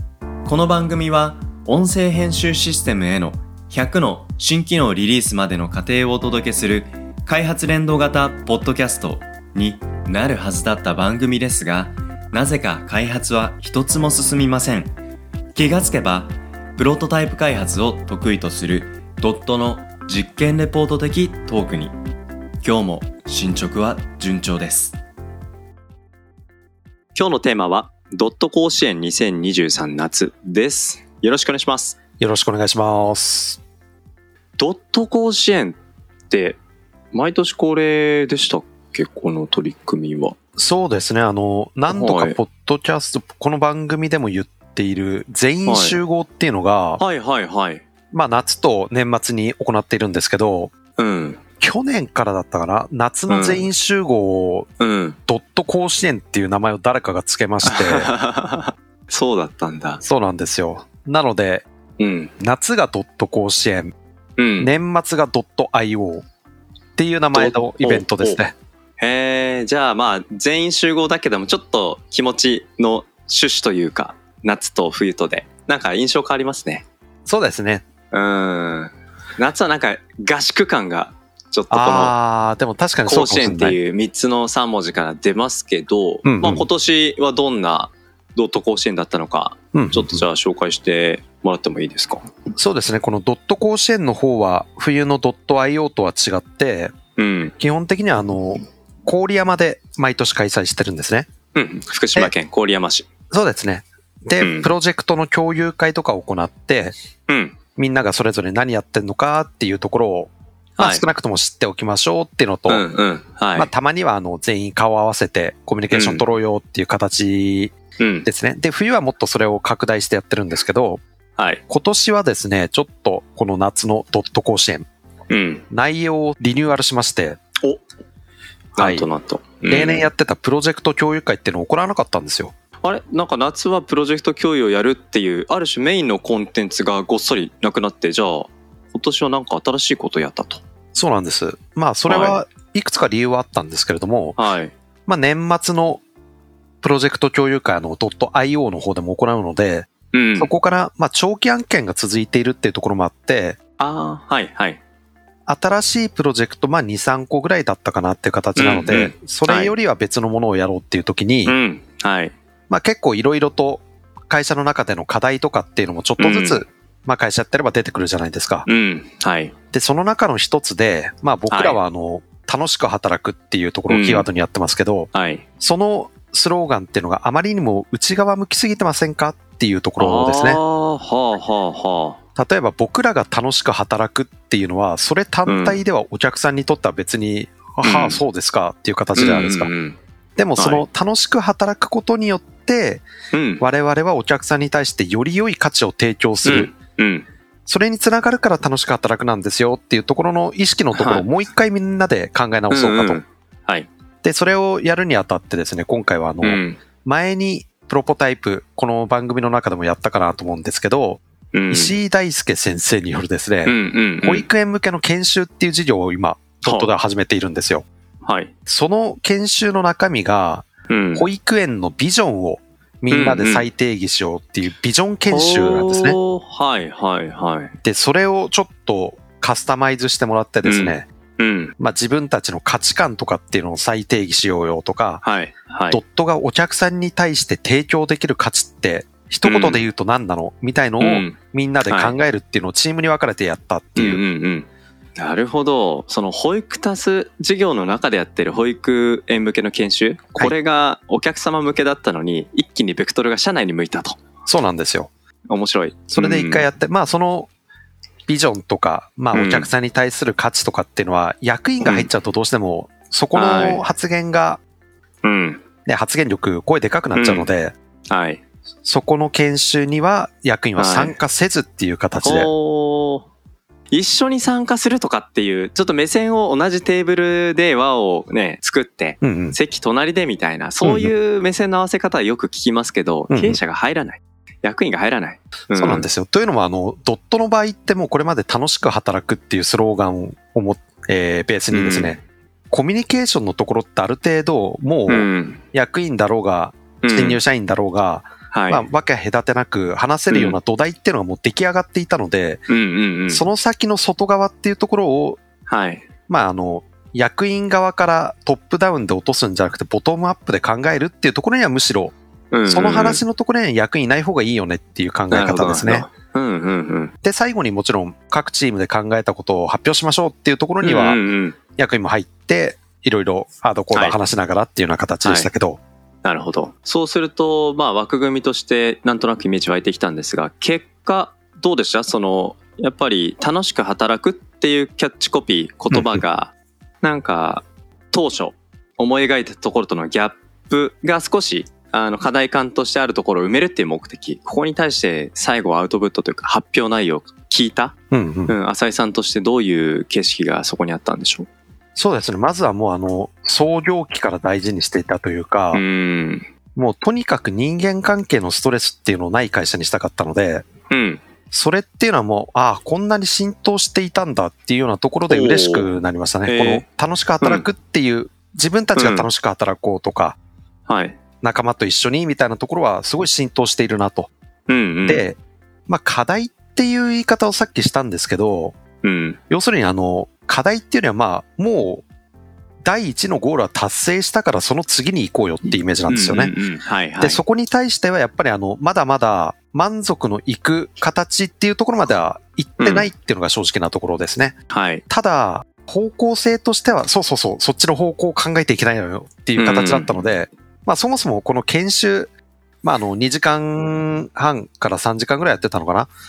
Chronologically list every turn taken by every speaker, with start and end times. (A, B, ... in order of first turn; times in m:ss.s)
0:00.4-0:14.9 A
0:15.6-0:22.0 A
0:22.6-0:25.0 A
0:27.2-0:32.0 A
0:32.2-0:33.6 B
0:34.6-0:35.8 A
0:36.3-0:36.6 A
0:37.1-0:40.4 A
0:40.6-0:47.0 B
0:41.9-0:42.4 A
0:45.7-0:46.0 A
0:47.0-0:47.8 A
0:48.1-0:50.7 B
0:51.0-0:51.4 A
0:51.6-0:54.7 B
0:53.3-0:53.7 A
0:54.8-0:55.2 A
0:55.3-0:58.1 B
0:57.6-1:00.0 A
1:00.0-1:01.6 B
1:02.0-1:02.3 A
1:02.4-1:03.9 B
1:04.4-1:04.7 A
1:04.6-1:06.2 B
1:07.0-1:08.5 B
1:07.3-1:08.4 A
1:09.0-1:16.8 A
1:17.2-1:17.8 B
1:18.1-1:22.2 A
1:21.7-1:23.8 B
1:23.0-1:32.2 A
1:26.2-1:26.7 B
1:29.7-1:30.2 B
1:32.6-1:36.9 B
1:37.2-1:37.5 A
1:37.6-1:41.3 B
1:41.5-1:43.1 A
1:43.3-1:46.9 B
1:44.4-1:44.7 A
1:47.3-1:47.6 A
1:47.8-1:52.8 B
1:50.8-1:51.0 A
1:52.7-1:53.7 A
1:53.5-1:57.7 B
1:55.9-1:56.2 A
1:58.0-1:58.3 A
1:58.2-2:01.0 B
2:01.4-2:01.6 A
2:01.7-2:04.9 B
2:05.3-2:05.6 A
2:05.7-2:07.4 B
2:08.8-2:10.1 A
2:08.8-2:09.1 B
2:09.7-2:12.5 B
2:12.8-2:20.6 A
2:21.0-2:24.4 B
2:22.1-2:22.4 A
2:24.4-2:24.7 A
2:25.1-2:26.0 B
2:26.8-2:33.6 B
2:30.1-2:30.5 A
2:33.8-2:34.8 A
2:35.5-2:41.6 B
2:38.6-2:39.7 A
2:41.5-2:42.3 A
2:42.7-2:48.7 B
2:46.2-2:46.6 A
2:48.7-2:49.5 A
2:49.7-3:00.6 B
2:51.5-2:51.8 A
2:53.9-2:54.3 A
2:55.1-2:55.4 A
3:00.0-3:02.2 A
3:02.4-3:09.7 B
3:05.5-3:05.8 A
3:07.8-3:08.2 A
3:09.1-3:10.0 A
3:10.4-3:13.1 B
3:10.6-3:10.8 A
3:13.3-3:13.6 A
3:13.6-3:16.7 B
3:16.4-3:17.3 A
3:17.7-3:23.2 B
3:21.0-3:21.2 A
3:22.7-3:23.9 A
3:24.2-3:37.8 B
3:26.4-3:26.8 A
3:31.5-3:32.0 A
3:33.7-3:34.5 A
3:36.6-3:36.9 A
3:38.2-3:38.5 A
3:38.7-3:46.2 B
3:40.9-3:41.2 A
3:43.1-3:43.7 A
3:45.3-3:47.7 A
3:47.8-3:51.1 B
3:50.6-3:51.7 A
3:51.8-3:55.2 B
3:55.2-3:56.0 A
3:55.9-4:04.2 B
3:59.4-3:59.8 A
4:01.0-4:02.2 A
4:04.0-4:14.2 A
4:14.5-4:15.1 B
4:15.5-4:16.6 A
4:16.1-4:17.5 B
4:18.3-4:24.6 B
4:19.3-4:19.7 A
4:21.8-4:22.1 A
4:23.3-4:23.8 A
4:25.2-4:25.6 A
4:25.8-4:27.8 B
4:27.1-4:27.5 A
4:28.1-4:28.4 A
4:28.8-4:32.5 B
4:30.8-4:31.1 A
4:32.2-4:33.3 A
4:33.9-4:46.1 A
4:39.2-4:39.6 B
4:40.8-4:41.1 B
4:43.3-4:43.6 B
4:45.8-5:02.6 B
4:51.7-4:52.2 A
4:55.1-4:55.6 A
4:57.0-4:57.4 A
4:58.5-4:58.8 A
5:00.3-5:00.6 A
5:02.7-5:03.4 A
5:03.3-5:05.4 B
5:05.7-5:06.1 A
5:06.3-5:12.1 B
5:12.5-5:13.2 A
5:12.7-5:16.1 B
5:15.3-5:17.1 A
5:17.2-5:21.2 B
5:20.8-5:21.6 A
5:21.8-5:25.8 B
5:25.2-5:25.5 A
5:26.2-5:47.9 A
5:35.9-5:36.2 B
5:48.1-5:48.5 B
5:48.5-5:51.5 A
5:52.0-5:55.8 B
5:55.7-5:56.5 A
5:56.8-6:00.6 B
6:00.9-6:01.2 A
6:01.5-6:10.4 B
6:05.3-6:05.9 A
6:06.4-6:06.8 A
6:08.9-6:09.3 A
6:10.9-6:11.2 A
6:11.4-6:14.3 B
6:14.7-6:15.2 A
6:15.1-6:18.8 B
6:19.0-6:19.4 A
6:19.5-6:22.0 B
6:22.8-6:26.5 B
6:26.1-6:27.4 A
6:27.2-6:34.6 B
6:32.8-6:33.1 A
6:34.7-6:35.0 A
6:35.1-6:42.3 B
6:39.6-6:40.1 A
6:42.8-6:46.1 B